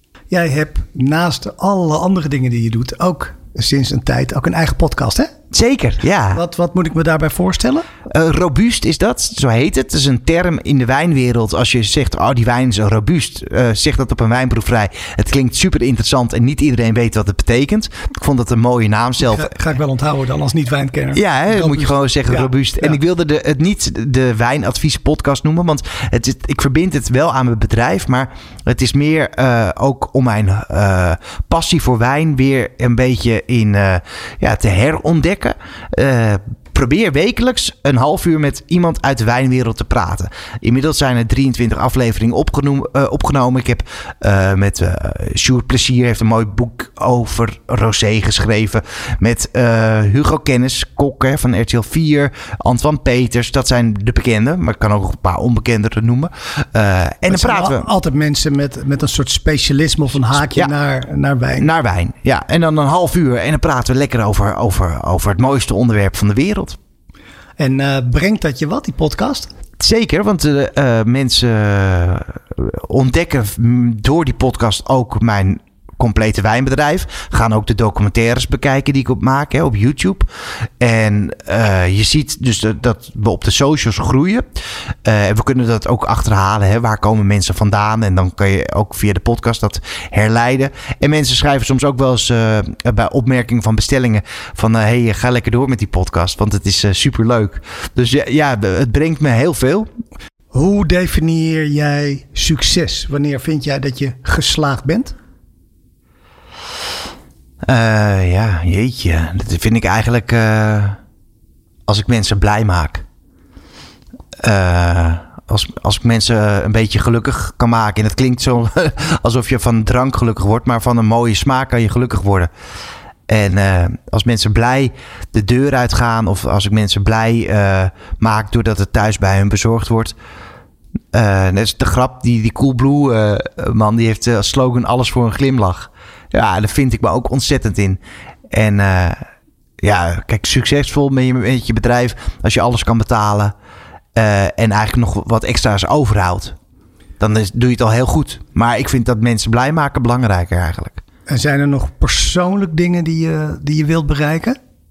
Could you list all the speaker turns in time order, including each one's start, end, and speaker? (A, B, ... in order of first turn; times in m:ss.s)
0:00.3-0:05.3 A
0:05.5-0:06.4 B
0:06.3-0:07.9 A
0:08.1-0:19.5 B
0:19.2-0:23.0 A
0:21.1-0:57.9 B
0:57.3-1:01.7 A
1:00.4-1:00.7 B
1:01.6-1:06.8 B
1:07.6-1:09.5 A
1:09.8-1:20.3 B
1:20.8-1:39.9 B
1:40.5-1:45.2 A
1:47.6-1:51.0 B
1:51.9-1:53.0 B
1:54.4-2:02.5 B
2:03.3-2:10.2 B
2:11.1-2:19.2 B
2:19.8-2:23.5 B
2:24.2-2:26.6 B
2:27.2-2:31.0 B
2:31.3-2:34.6 A